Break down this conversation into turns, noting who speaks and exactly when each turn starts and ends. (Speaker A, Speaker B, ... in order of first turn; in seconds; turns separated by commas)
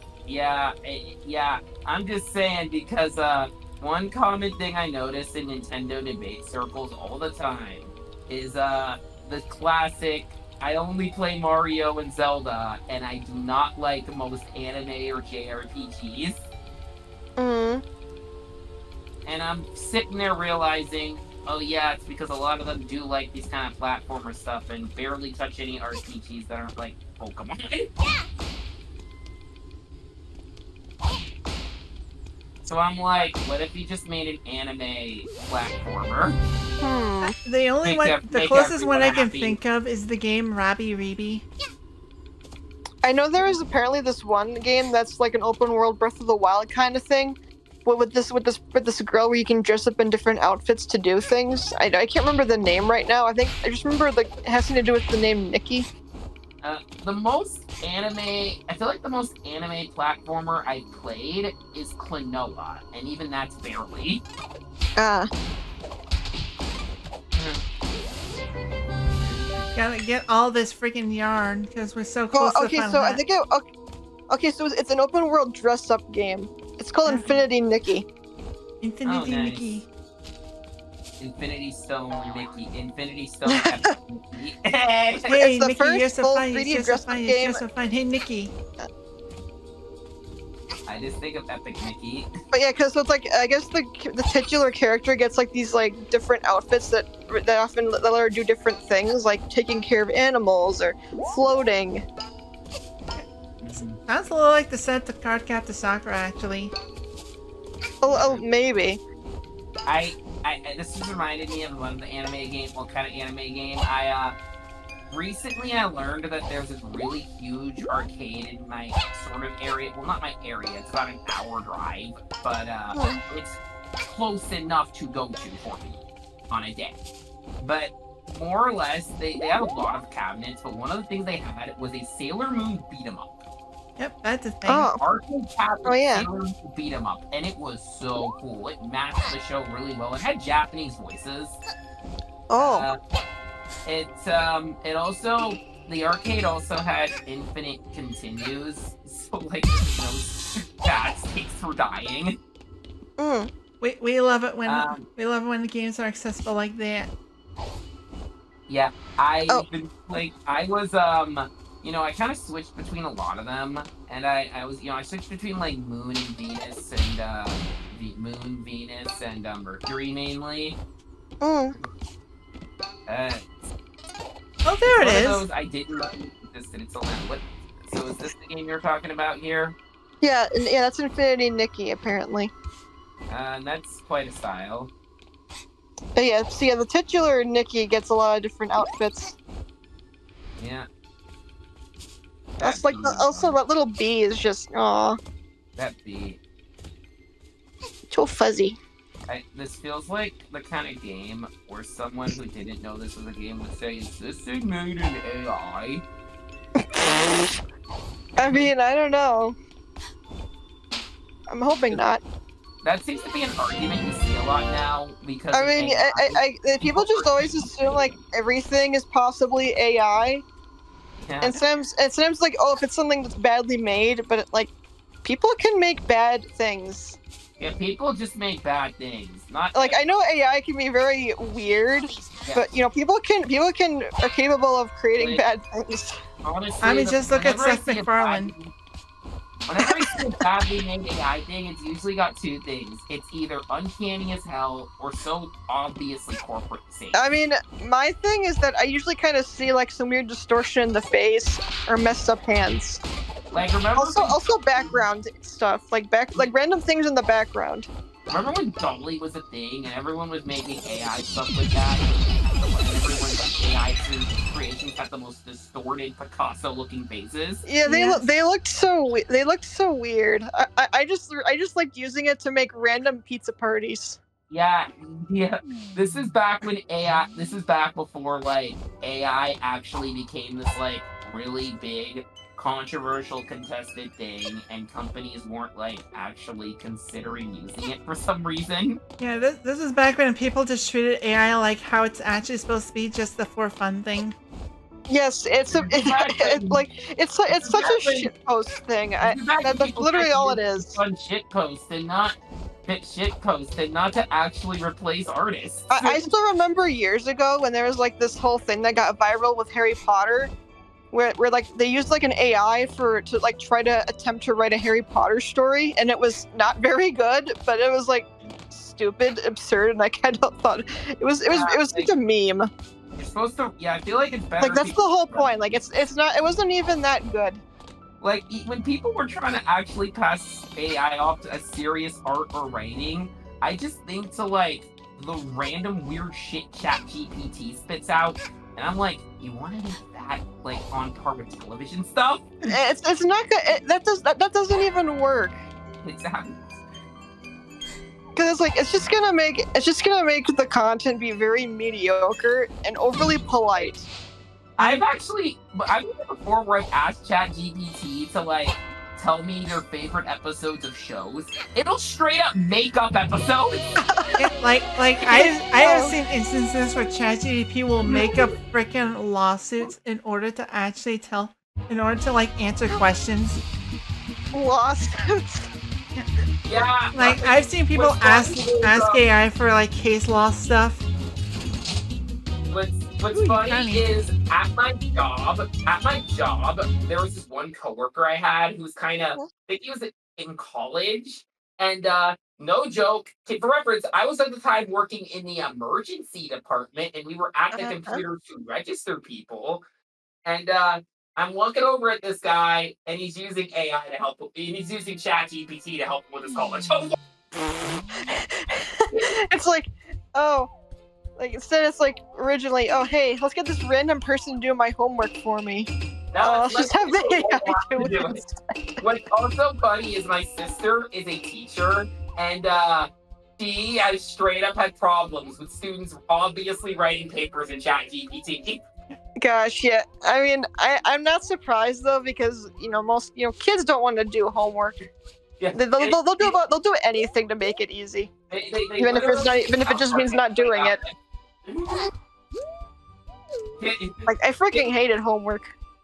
Speaker A: 0.2-16.4, Speaker B: 17.4-17.8, Speaker A: 19.2-27.9, Speaker A: 32.6-36.4, Speaker B: 36.8-37.3, Speaker C: 37.2-41.5, Speaker A: 37.8-39.6, Speaker B: 43.0-55.9, Speaker A: 56.6-64.2, Speaker B: 65.0-65.3, Speaker A: 67.3-67.6, Speaker A: 69.2-69.7, Speaker C: 69.7-73.2, Speaker B: 72.3-73.7, Speaker B: 74.3-78.0, Speaker C: 77.0-77.4, Speaker C: 78.8-79.9, Speaker A: 79.0-79.8, Speaker A: 81.2-85.3, Speaker B: 83.5-83.9, Speaker C: 85.2-88.5, Speaker B: 85.3-87.6, Speaker A: 90.9-92.3, Speaker B: 92.5-102.0, Speaker A: 103.6-104.0, Speaker C: 104.0-106.7, Speaker B: 108.0-109.0, Speaker A: 108.1-108.4, Speaker A: 109.8-114.3, Speaker A: 115.1-127.0, Speaker B: 122.9-123.2, Speaker A: 127.6-133.4, Speaker C: 134.0-134.9, Speaker B: 134.7-135.0, Speaker A: 134.9-141.6, Speaker B: 135.8-136.3, Speaker B: 142.5-142.9, Speaker A: 142.6-143.0, Speaker A: 143.8-152.4, Speaker B: 153.2-153.5, Speaker C: 153.8-157.1, Speaker A: 154.7-155.1, Speaker A: 158.7-170.8, Speaker B: 171.4-171.7, Speaker A: 173.1-173.4, Speaker C: 174.6-175.4, Speaker A: 174.9-179.8, Speaker B: 180.2-182.5, Speaker A: 183.3-184.9, Speaker B: 186.2-189.3, Speaker A: 190.6-190.9, Speaker A: 192.6-193.5, Speaker B: 192.6-195.2, Speaker A: 195.8-196.4, Speaker B: 198.1-198.8, Speaker A: 199.3-206.0, Speaker B: 206.8-207.4, Speaker B: 208.4-209.6, Speaker B: 211.5-212.2, Speaker A: 212.8-217.4, Speaker B: 215.5-220.4, Speaker A: 221.2-221.6, Speaker B: 221.4-224.7, Speaker B: 225.2-227.2, Speaker A: 227.6-230.0, Speaker B: 229.7-236.2, Speaker A: 232.4-232.7, Speaker A: 235.2-235.4, Speaker A: 236.4-238.7, Speaker C: 236.8-238.5, Speaker A: 239.7-247.2, Speaker B: 247.1-253.0, Speaker A: 253.5-254.9, Speaker B: 253.9-257.9, Speaker A: 258.3-267.6, Speaker B: 267.6-274.2, Speaker C: 267.8-268.2, Speaker A: 274.5-289.0, Speaker C: 289.2-294.4, Speaker B: 295.1-301.0, Speaker A: 295.7-296.8, Speaker A: 297.5-298.3, Speaker A: 299.2-306.2, Speaker B: 305.9-310.5, Speaker B: 311.1-322.7, Speaker A: 321.5-322.1, Speaker A: 323.1-325.7, Speaker B: 324.6-327.6, Speaker A: 328.2-342.5, Speaker B: 342.7-345.6, Speaker A: 346.0-346.8, Speaker B: 348.3-354.1, Speaker A: 354.8-363.8, Speaker B: 364.0-364.5, Speaker C: 364.4-373.6, Speaker B: 365.2-366.1, Speaker A: 368.0-368.5, Speaker B: 374.5-375.7, Speaker A: 376.6-379.2, Speaker C: 377.1-381.0, Speaker A: 382.6-399.8, Speaker C: 383.3-384.1, Speaker B: 397.7-398.2, Speaker A: 400.4-407.2, Speaker B: 408.1-410.7, Speaker B: 411.4-418.6, Speaker A: 416.3-418.4, Speaker A: 419.0-428.8, Speaker B: 429.4-435.0, Speaker A: 435.6-436.5, Speaker B: 435.7-438.3, Speaker A: 438.5-441.1, Speaker B: 439.0-441.0, Speaker A: 441.6-442.1, Speaker A: 443.8-444.9, Speaker B: 444.2-445.7